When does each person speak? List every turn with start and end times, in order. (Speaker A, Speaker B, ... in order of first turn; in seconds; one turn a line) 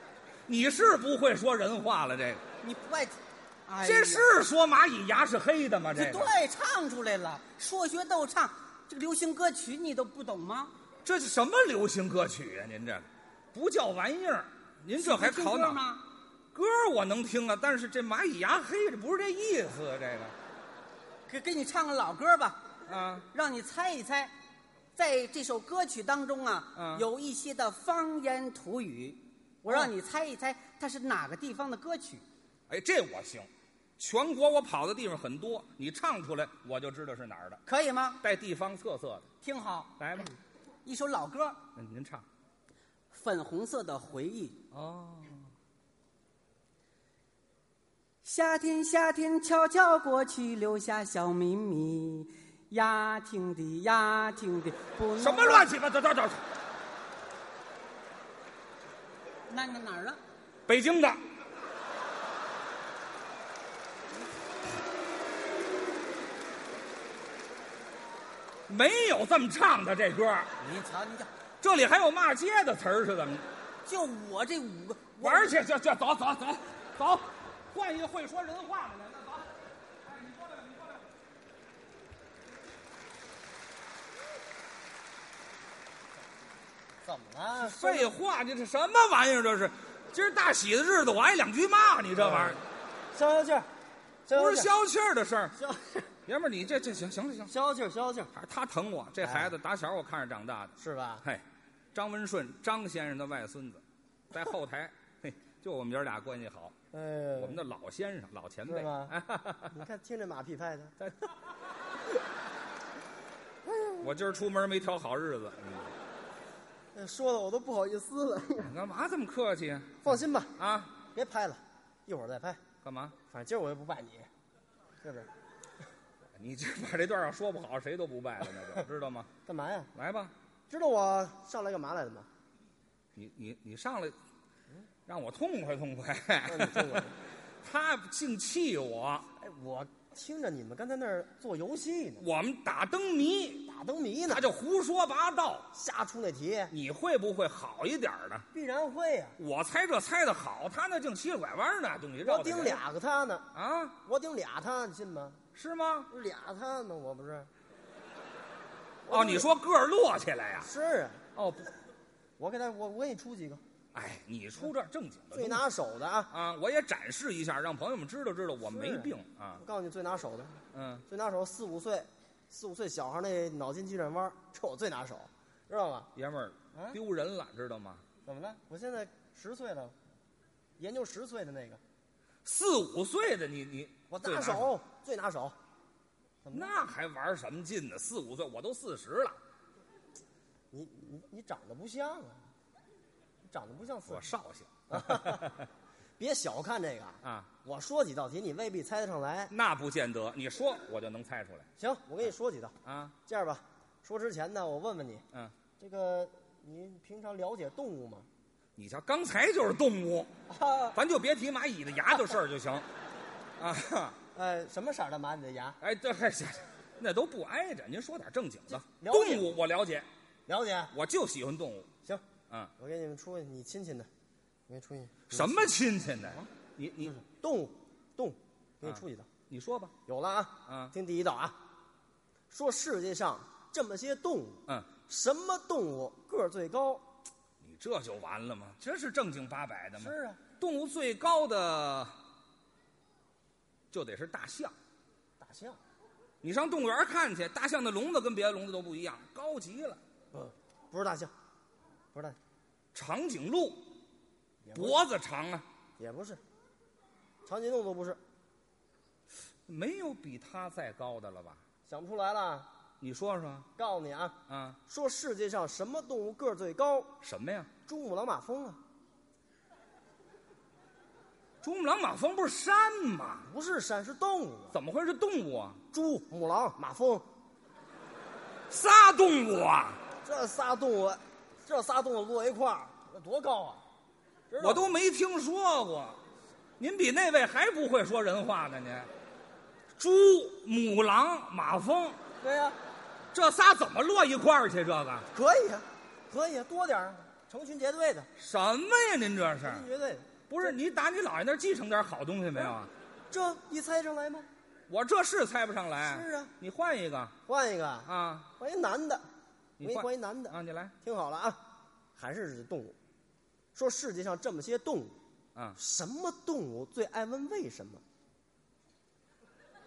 Speaker A: 0.5-2.4
Speaker B: 2.6-4.3
Speaker A: 3.8-6.3
Speaker B: 5.9-10.7
Speaker A: 11.0-15.8
Speaker B: 15.0-16.0
Speaker A: 16.5-20.3
Speaker B: 21.3-22.6
Speaker A: 22.9-23.3
Speaker B: 23.3-24.3
Speaker B: 24.9-32.2
Speaker A: 26.8-27.1
Speaker A: 32.7-37.6
Speaker B: 37.7-38.2
Speaker A: 38.2-39.3
Speaker B: 39.4-40.3
Speaker A: 40.0-40.3
Speaker B: 40.9-41.6
Speaker A: 41.8-42.2
Speaker B: 43.1-44.6
Speaker A: 44.7-45.5
Speaker B: 48.2-55.7
Speaker A: 55.2-56.4
Speaker B: 59.5-60.2
Speaker A: 60.7-61.2
Speaker A: 68.7-70.5
Speaker B: 70.6-71.3
Speaker A: 71.6-73.5
Speaker B: 73.9-75.6
Speaker A: 75.2-79.5
Speaker A: 80.1-81.0
Speaker C: 87.0-88.1
Speaker A: 87.6-92.6
Speaker C: 92.2-92.6
Speaker C: 93.1-93.7
Speaker C: 94.3-94.7
Speaker A: 94.3-95.6
Speaker C: 95.6-96.1
Speaker A: 96.3-97.5
Speaker C: 97.5-98.3
Speaker A: 98.3-101.4
Speaker C: 99.2-99.5
Speaker C: 100.8-101.2
Speaker A: 102.0-106.8
Speaker C: 106.9-107.6
Speaker A: 107.4-109.8
Speaker C: 108.7-109.2
Speaker C: 109.7-111.0
Speaker C: 113.7-114.0
Speaker A: 114.0-115.9
Speaker C: 116.9-118.7
Speaker A: 118.6-121.0
Speaker C: 120.0-120.5
Speaker C: 121.1-122.6
Speaker A: 122.8-123.2
Speaker C: 123.3-124.3
Speaker C: 125.0-125.3
Speaker A: 126.4-129.3
Speaker C: 129.5-129.9
Speaker A: 129.9-130.3
Speaker C: 130.7-132.3
Speaker A: 133.2-134.2
Speaker A: 135.1-137.1
Speaker C: 136.5-137.2
Speaker A: 137.6-139.3
Speaker C: 139.4-142.2
Speaker A: 142.2-143.7
Speaker C: 143.7-144.5
Speaker A: 144.3-145.7
Speaker C: 145.7-146.7
Speaker A: 146.7-148.5
Speaker C: 148.5-149.4
Speaker A: 149.4-152.8
Speaker C: 152.2-153.5
Speaker A: 153.6-154.0
Speaker C: 154.0-155.4
Speaker A: 155.6-156.1
Speaker C: 156.1-157.5
Speaker C: 159.1-159.5
Speaker A: 159.1-160.7
Speaker C: 160.6-161.2
Speaker A: 161.4-161.7
Speaker C: 162.4-163.6
Speaker A: 163.9-165.7
Speaker C: 165.3-166.3
Speaker A: 166.3-169.6
Speaker C: 168.6-176.1
Speaker A: 170.7-171.0
Speaker A: 176.2-178.0
Speaker C: 176.7-177.0
Speaker C: 178.2-180.0
Speaker C: 180.8-181.8
Speaker A: 182.4-184.7
Speaker C: 184.1-185.6
Speaker C: 186.4-186.8
Speaker A: 186.5-189.4
Speaker C: 190.7-192.4
Speaker C: 193.5-194.3
Speaker A: 194.1-195.7
Speaker C: 194.9-195.6
Speaker C: 196.2-199.5
Speaker A: 197.2-197.5
Speaker A: 199.5-201.7
Speaker C: 201.8-205.2
Speaker A: 202.8-203.2
Speaker C: 205.8-208.3
Speaker A: 208.8-210.3
Speaker C: 210.5-211.0
Speaker A: 210.9-212.8
Speaker A: 213.6-214.2
Speaker C: 214.3-215.8
Speaker A: 215.8-220.1
Speaker C: 218.7-219.6
Speaker C: 220.5-220.9
Speaker A: 220.9-221.9
Speaker C: 222.8-224.1
Speaker C: 224.7-225.7
Speaker A: 225.3-227.2
Speaker C: 227.0-229.3
Speaker A: 228.8-229.9
Speaker C: 230.1-231.6
Speaker A: 230.7-230.9
Speaker C: 232.5-237.1
Speaker A: 237.6-242.1
Speaker C: 240.0-240.4
Speaker A: 243.9-244.8
Speaker C: 245.4-245.8
Speaker A: 246.4-250.0
Speaker C: 250.3-251.3
Speaker A: 252.9-253.9
Speaker C: 254.7-255.0
Speaker A: 254.7-255.7
Speaker C: 256.0-256.4
Speaker C: 257.4-258.2
Speaker A: 259.7-261.6
Speaker C: 261.9-262.7
Speaker A: 263.0-263.7
Speaker C: 263.8-267.2
Speaker A: 264.5-264.8
Speaker A: 267.2-267.7
Speaker C: 267.9-268.8
Speaker A: 271.6-273.5
Speaker C: 273.4-274.8
Speaker A: 274.7-275.8
Speaker C: 275.9-277.3
Speaker A: 278.7-280.0
Speaker C: 280.2-283.8
Speaker C: 284.5-284.9
Speaker A: 284.6-286.2
Speaker A: 286.8-289.1
Speaker A: 290.0-292.2
Speaker C: 292.4-292.8
Speaker A: 293.3-295.3
Speaker C: 295.3-298.3
Speaker A: 298.4-299.9
Speaker C: 299.6-300.4
Speaker A: 300.5-302.9
Speaker C: 303.3-304.5
Speaker A: 304.9-307.4
Speaker C: 306.0-306.5
Speaker C: 307.5-309.2
Speaker A: 308.1-308.5
Speaker A: 309.8-310.9
Speaker C: 309.8-311.6
Speaker C: 312.1-313.0
Speaker C: 313.8-315.2
Speaker C: 315.8-318.0